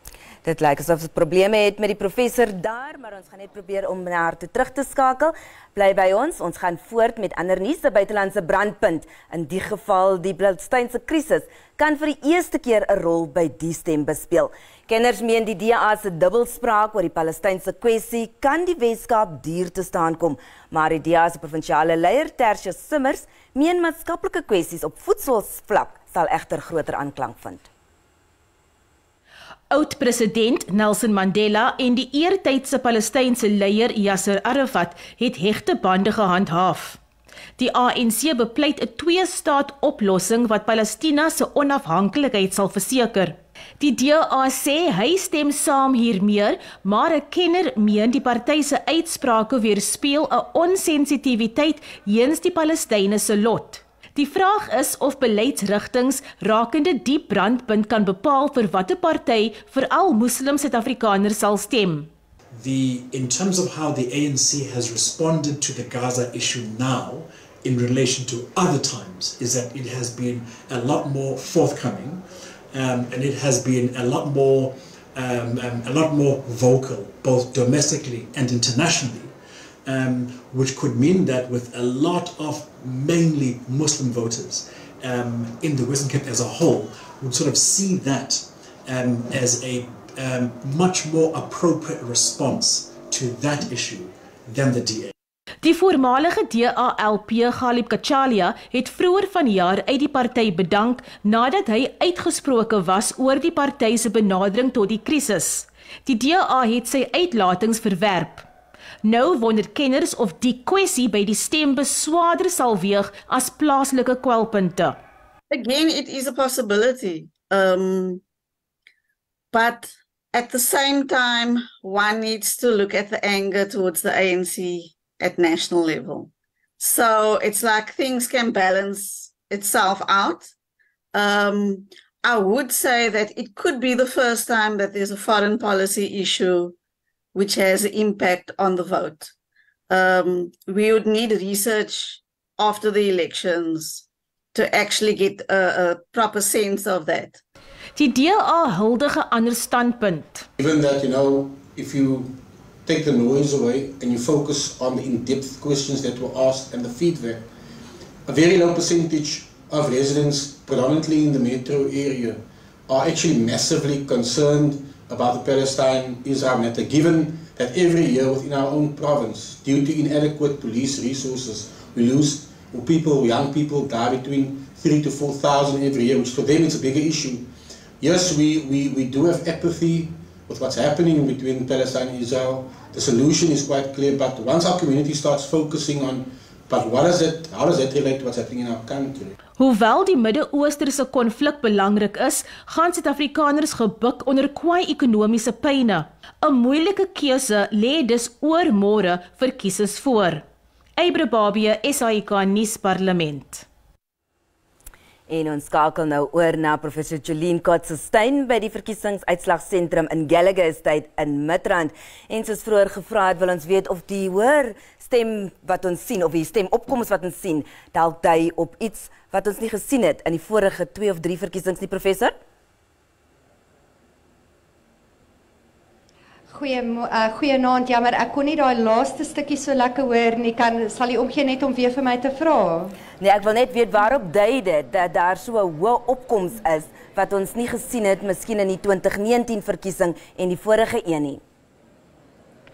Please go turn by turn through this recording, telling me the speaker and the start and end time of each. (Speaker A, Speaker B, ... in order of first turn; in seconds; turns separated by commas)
Speaker A: 0.4-27.7, Speaker B: 29.7-37.0, Speaker B: 37.6-62.1, Speaker C: 62.5-79.3, Speaker C: 79.8-95.1, Speaker B: 95.6-108.5, Speaker B: 109.0-115.0, Speaker D: 115.5-118.2, Speaker D: 119.5-130.5, Speaker D: 131.1-136.8, Speaker D: 137.3-139.3, Speaker D: 139.9-147.4, Speaker B: 148.0-150.5, Speaker E: 150.6-152.3, Speaker E: 152.8-157.4, Speaker E: 158.3-177.5, Speaker E: 178.0-189.3, Speaker B: 189.6-200.4, Speaker B: 201.0-203.7, Speaker A: 205.3-222.3, Speaker F: 226.5-232.9, Speaker A: 233.2-241.4